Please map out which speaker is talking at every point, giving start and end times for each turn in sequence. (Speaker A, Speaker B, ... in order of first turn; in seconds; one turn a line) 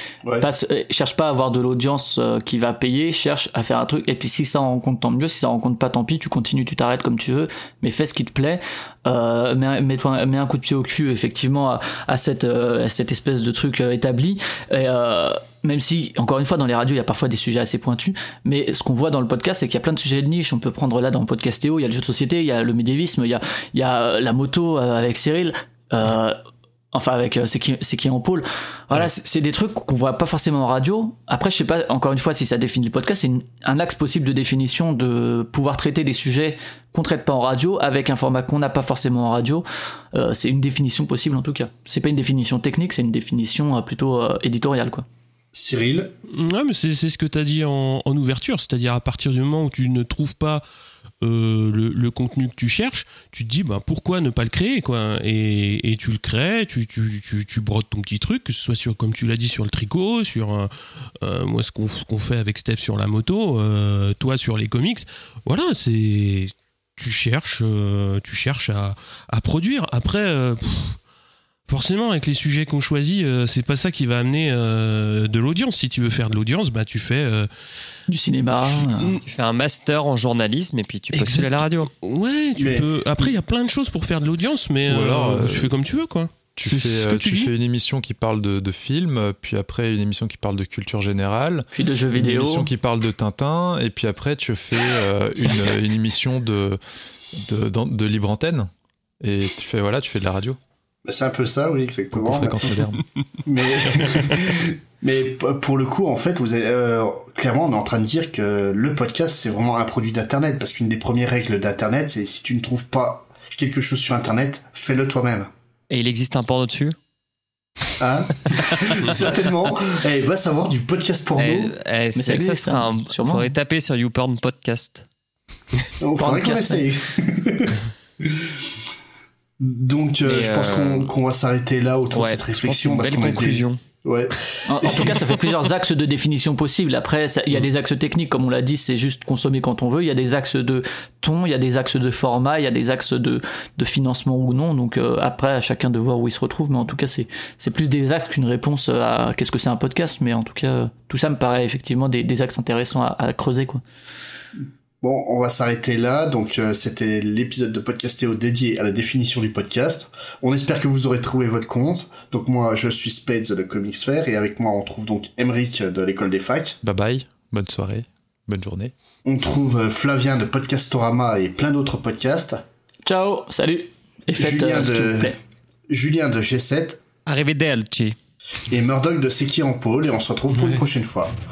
Speaker A: 0.4-26.4
Speaker A: 26.9-45.0
Speaker B: 45.5-46.1
Speaker C: 46.3-50.6
Speaker C: 51.2-71.0
Speaker C: 71.7-77.5
Speaker A: 78.1-79.2
Speaker C: 78.6-79.2
Speaker D: 79.2-81.9
Speaker C: 81.1-87.5
Speaker B: 82.6-83.4
Speaker E: 84.9-85.7
Speaker E: 86.5-96.8
Speaker A: 91.7-92.7
Speaker E: 97.3-100.6
Speaker B: 101.0-102.8
Speaker E: 102.1-103.0
Speaker B: 103.5-115.5
Speaker D: 115.9-117.0
Speaker B: 118.0-121.7
Speaker D: 119.0-119.3
Speaker D: 121.4-125.1
Speaker A: 122.1-123.5
Speaker B: 126.0-128.6
Speaker A: 126.2-126.8
Speaker B: 129.6-135.2
Speaker D: 130.2-131.1
Speaker D: 132.1-133.8
Speaker A: 134.7-153.8
Speaker B: 154.6-166.8
Speaker E: 166.8-168.9
Speaker B: 169.2-172.6
Speaker A: 173.1-175.4
Speaker B: 174.4-175.4
Speaker B: 175.9-177.0
Speaker D: 177.2-178.2
Speaker B: 178.7-181.4
Speaker C: 180.5-180.8